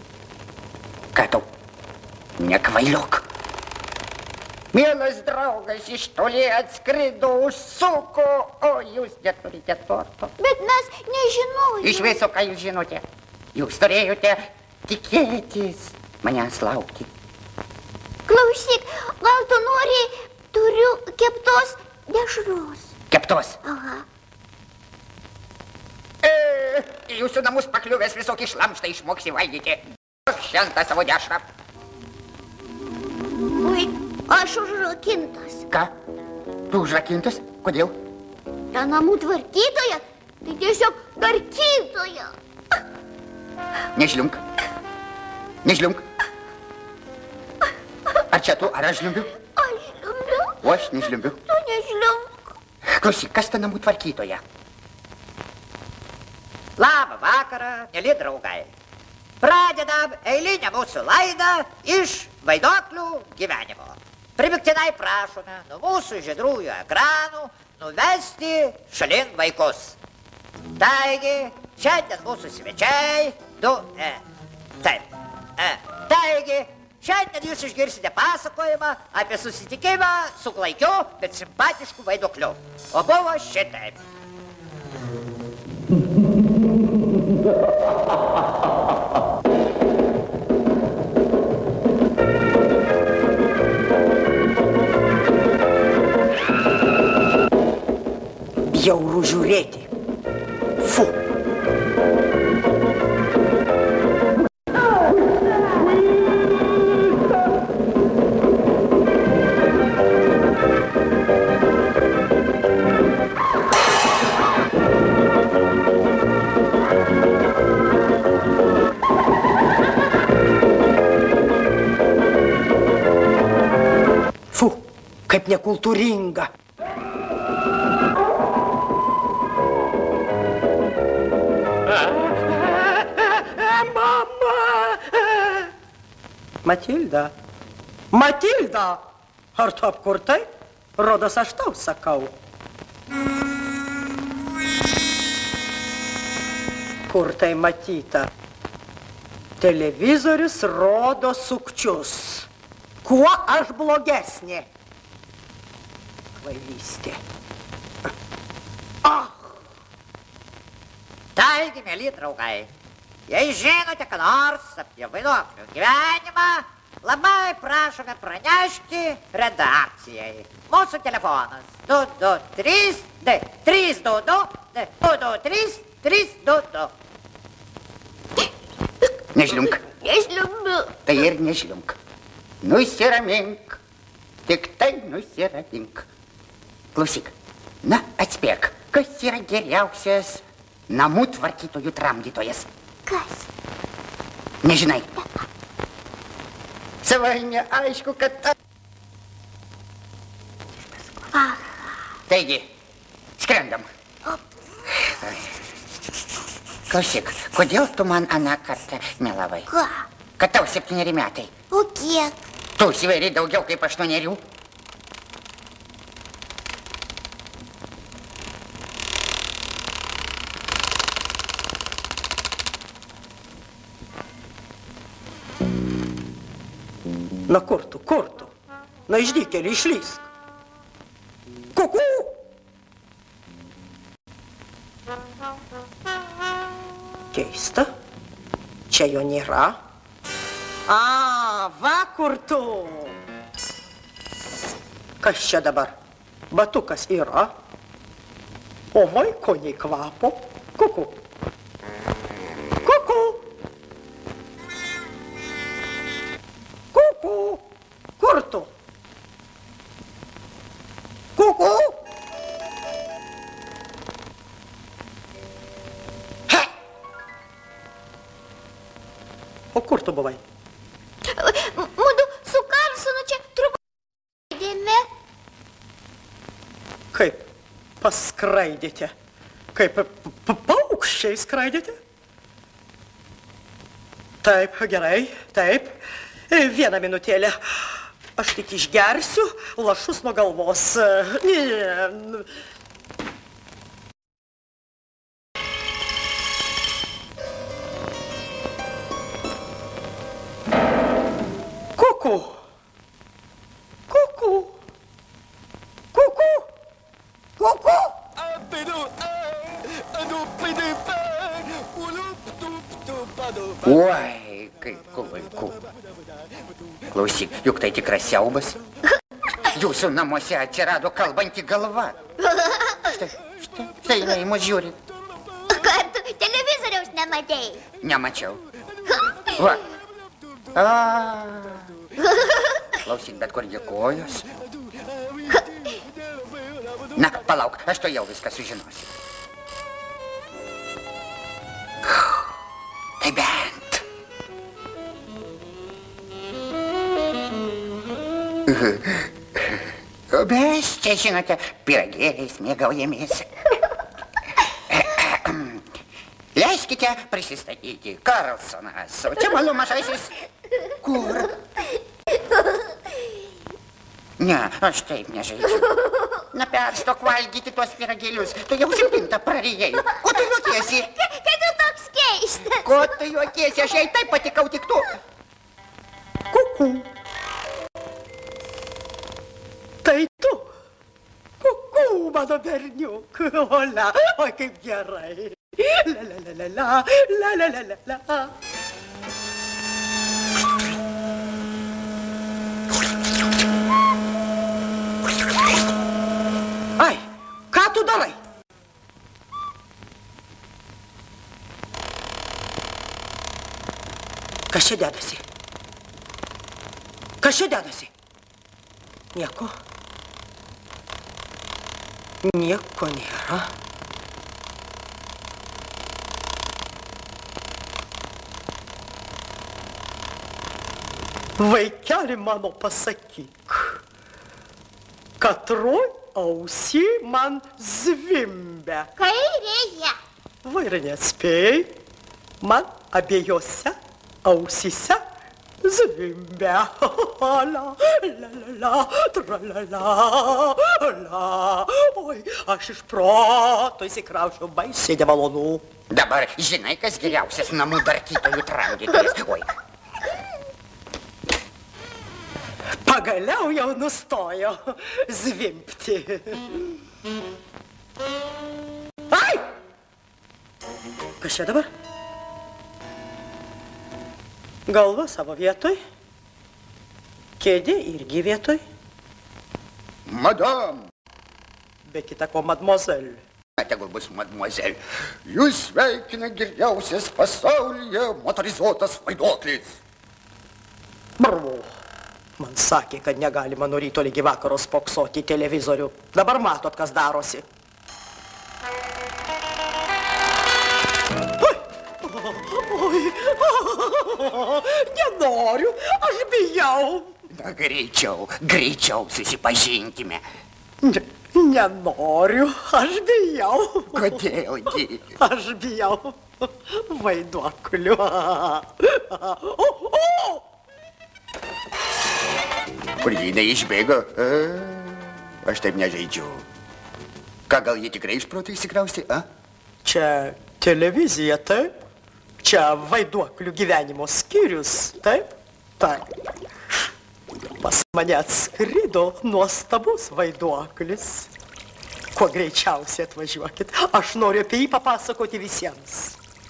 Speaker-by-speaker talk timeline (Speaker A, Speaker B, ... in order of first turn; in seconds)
Speaker A: 1.1-1.4, 2.4-3.2, 4.7-10.3, 11.8-13.0, 13.5-17.1, 23.1-23.6, 26.2-31.4, 36.7-37.9, 43.9-44.4, 45.6-46.0, 48.3-49.3, 50.6-51.4, 53.0-54.4, 179.3-179.8, 181.0-182.0, 182.6-183.8, 184.4-186.1, 186.9-192.7, 194.6-195.2, 197.0-198.5, 202.3-202.7, 203.4-203.8, 205.1-205.4, 206.9-209.7, 210.4-211.5, 212.8-214.4, 313.8-315.8, 317.1-318.8, 319.7-322.2, 323.1-325.0, 328.0-328.6, 329.5-329.8, 330.7-331.9, 333.0-334.5, 337.1-339.1, 343.2-344.0, 348.7-353.5, 354.9-355.8, 356.5-360.3, 361.0-361.5, 364.4-371.1, 372.8-375.1, 446.1-449.7, 470.2-471.0, 473.8-480.0, 497.5-500.4, 504.1-505.3, 513.2-516.6, 517.7-519.5
Speaker B: 10.4-12.1, 18.3-22.9, 23.6-24.0, 33.6-35.6, 38.7-42.3, 49.5-50.7, 51.5-52.5, 179.9-180.9, 193.1-193.5, 201.3-201.9, 209.7-210.1, 211.7-212.3, 271.3-273.8, 274.5-275.1, 322.4-323.1, 325.7-327.8, 329.1-329.4, 332.3-332.7, 371.1-372.9, 429.2-430.1
Speaker C: 56.8-58.7, 59.4-70.0, 70.8-74.2, 75.6-84.0, 161.3-162.7, 163.3-176.9
Speaker D: 98.6-99.9, 100.8-101.2, 124.5-126.5, 132.9-135.7, 136.6-137.3, 138.1-139.0, 139.5-140.4, 141.0-142.3, 147.1-148.3, 149.6-152.5, 153.0-154.7, 156.3-157.2, 159.0-159.3, 227.5-228.5, 229.1-230.3, 231.7-232.4, 237.3-237.9, 238.9-239.8, 240.9-243.2, 245.2-245.9, 246.5-247.5, 248.9-251.2, 252.8-253.4, 256.9-257.6, 258.2-258.7, 261.4-262.0, 269.7-270.4, 277.1-277.4, 278.0-279.1, 279.7-281.9, 284.4-285.9, 286.5-292.5, 301.9-302.6, 304.1-304.7, 306.1-306.7, 376.5-377.1, 380.0-380.7, 381.6-388.5, 397.0-398.4, 404.7-405.4, 407.4-408.1, 409.3-409.7, 412.4-413.7, 421.6-424.0, 425.4-429.1, 430.6-431.9, 432.6-435.2, 435.8-445.8, 453.0-456.8, 459.3-459.7, 461.4-461.9, 464.9-466.0, 467.6-468.8, 472.1-473.4, 481.4-481.9, 482.6-487.6, 491.6-497.3, 501.0-504.3, 505.4-510.6, 520.0-521.9, 522.6-525.5, 526.0-526.2, 527.8-531.5, 532.3-536.4